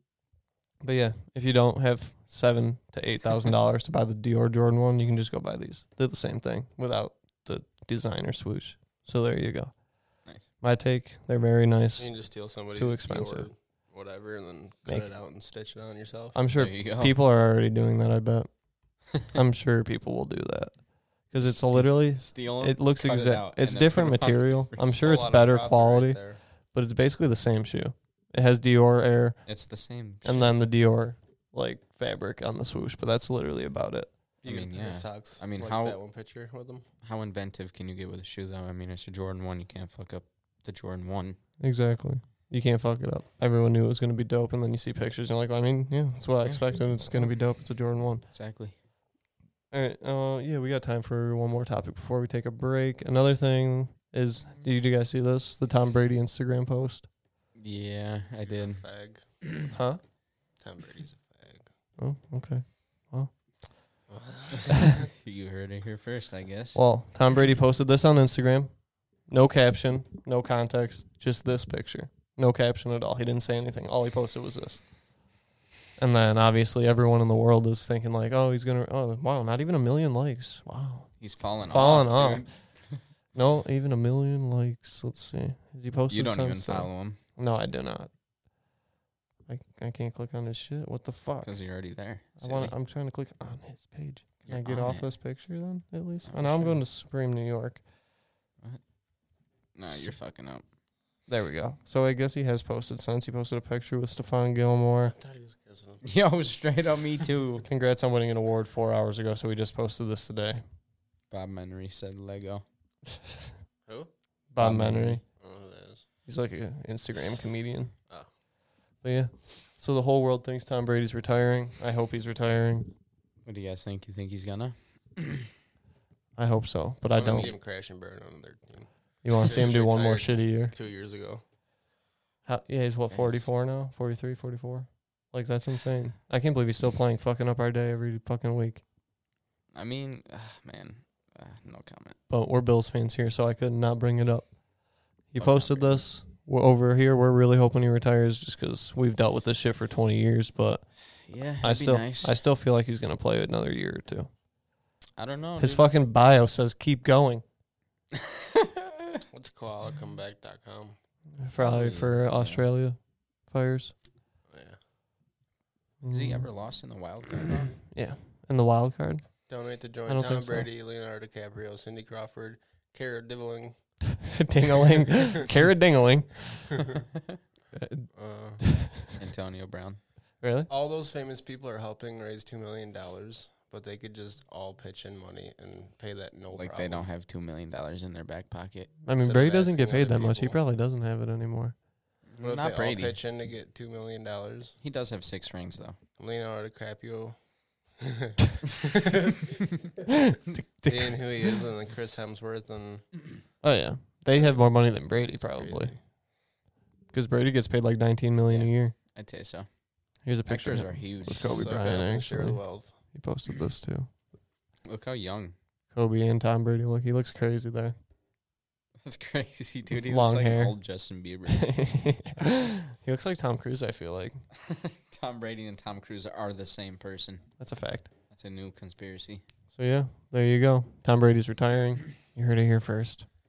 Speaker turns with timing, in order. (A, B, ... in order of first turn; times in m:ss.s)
0:00.8-0:13.5 A
0:12.0-0:16.4 B
0:16.3-0:29.6 A
0:16.5-0:17.2 C
0:21.4-0:25.0 C
0:24.9-0:26.4 B
0:29.4-0:30.6 C
0:30.2-0:34.2 A
0:34.4-0:36.8 B
0:34.4-0:36.0 C
0:37.0-0:41.4 C
0:41.6-0:48.2 A
0:48.3-0:48.8 C
0:49.7-0:57.1 A
0:57.5-0:59.5 C
0:58.4-0:59.3 B
0:59.7-1:00.0 A
1:00.6-1:01.7 B
1:02.0-1:03.3 A
1:04.1-1:04.9 B
1:04.5-1:06.8 C
1:06.7-1:14.9 A
1:16.0-1:22.8 A
1:21.2-1:23.0 C
1:23.3-1:28.1 A
1:26.1-1:27.2 C
1:29.5-1:31.8 A
1:31.4-1:32.7 C
1:32.4-1:37.8 A
1:34.4-1:35.2 C
1:36.2-1:36.8 C
1:39.7-1:40.6 C
1:39.9-1:40.1 A
1:41.3-1:45.1 A
1:45.0-1:46.0 B
1:46.0-1:47.6 C
1:47.6-1:50.6 A
1:51.3-1:52.6 C
1:53.8-1:54.1 B
1:54.5-1:55.2 A
1:54.6-1:55.2 C
1:55.3-1:56.0 B
1:56.2-1:58.0 A
1:59.0-2:02.9 A
2:03.4-2:05.5 C
2:06.4-2:07.5 A
2:07.1-2:11.4 B
2:07.2-2:07.6 C
2:09.2-2:10.7 A
2:12.4-2:18.8 A
2:13.1-2:13.5 C
2:19.7-2:22.2 C
2:22.3-2:31.0 A
2:25.4-2:26.1 C
2:31.2-2:32.4 C
2:31.6-2:34.3 A
2:35.2-2:35.9 C
2:35.6-2:37.4 A
2:38.2-2:38.8 C
2:39.3-2:41.0 B
2:41.4-2:43.9 A
2:41.6-2:42.7 C
2:44.5-2:44.8 B
2:46.0-2:46.5 A
2:46.1-2:47.8 C
2:47.9-2:50.7 A
2:49.5-2:54.0 B
2:54.3-2:56.8 A
2:57.7-2:59.0 A
2:58.1-2:58.6 B
2:59.2-3:00.0 C
3:00.4-3:00.7 A
3:00.7-3:07.1 B
3:06.5-3:09.1 C
3:09.0-3:11.8 A
3:09.1-3:10.6 B
3:12.2-3:13.2 C
3:12.4-3:14.8 B
3:14.8-3:16.0 C
3:16.2-3:18.3 B
3:20.5-3:21.6 A
3:20.8-3:23.0 B
3:23.6-3:25.9 A
3:24.3-3:26.0 B
3:27.1-3:28.9 A
3:28.5-3:29.7 C
3:30.2-3:34.1 A
3:30.4-3:31.7 C
3:31.4-3:33.0 B
3:34.8-3:35.5 C
3:35.9-3:37.9 A
3:39.0-3:41.8 C
3:40.0-3:40.8 A
3:41.5-3:44.4 A
3:44.5-3:47.5 C
3:47.6-3:48.1 A
3:48.3-3:49.4 C
3:49.7-3:53.3 A